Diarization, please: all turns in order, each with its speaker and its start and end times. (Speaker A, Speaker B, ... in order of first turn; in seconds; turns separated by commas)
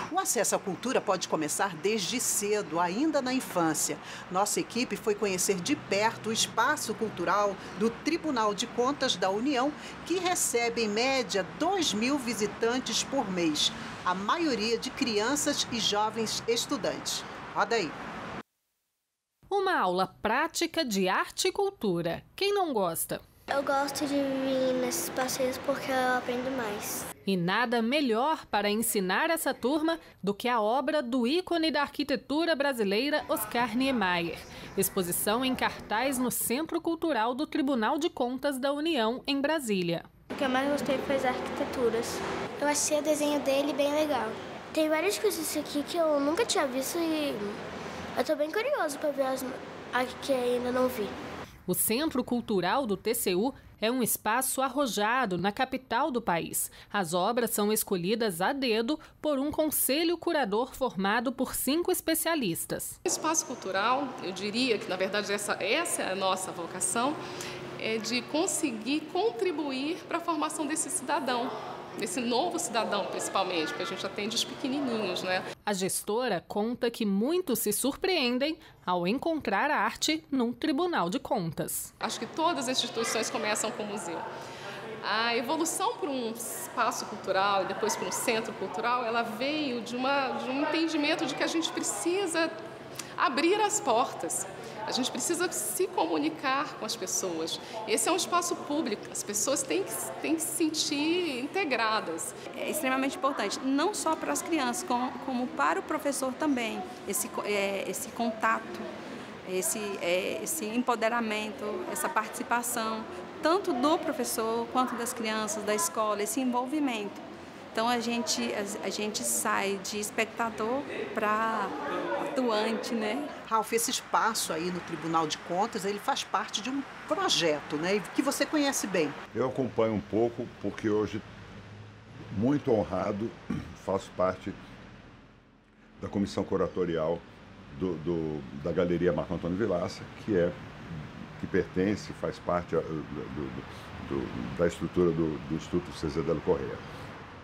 Speaker A: 0.1-17.9, Speaker B: 19.5-23.2, Speaker C: 23.5-27.1, Speaker B: 27.2-40.1, Speaker C: 40.3-47.6, Speaker C: 48.1-51.2, Speaker B: 51.7-63.0, Speaker D: 63.1-67.2, Speaker D: 67.8-75.4, Speaker B: 75.6-81.9, Speaker D: 82.0-84.3, Speaker D: 85.0-92.6, Speaker D: 93.2-102.4, Speaker E: 102.5-108.9, Speaker E: 109.4-123.3, Speaker A: 123.5-129.2, Speaker F: 129.3-131.2, Speaker F: 132.3-134.6, Speaker F: 136.0-146.8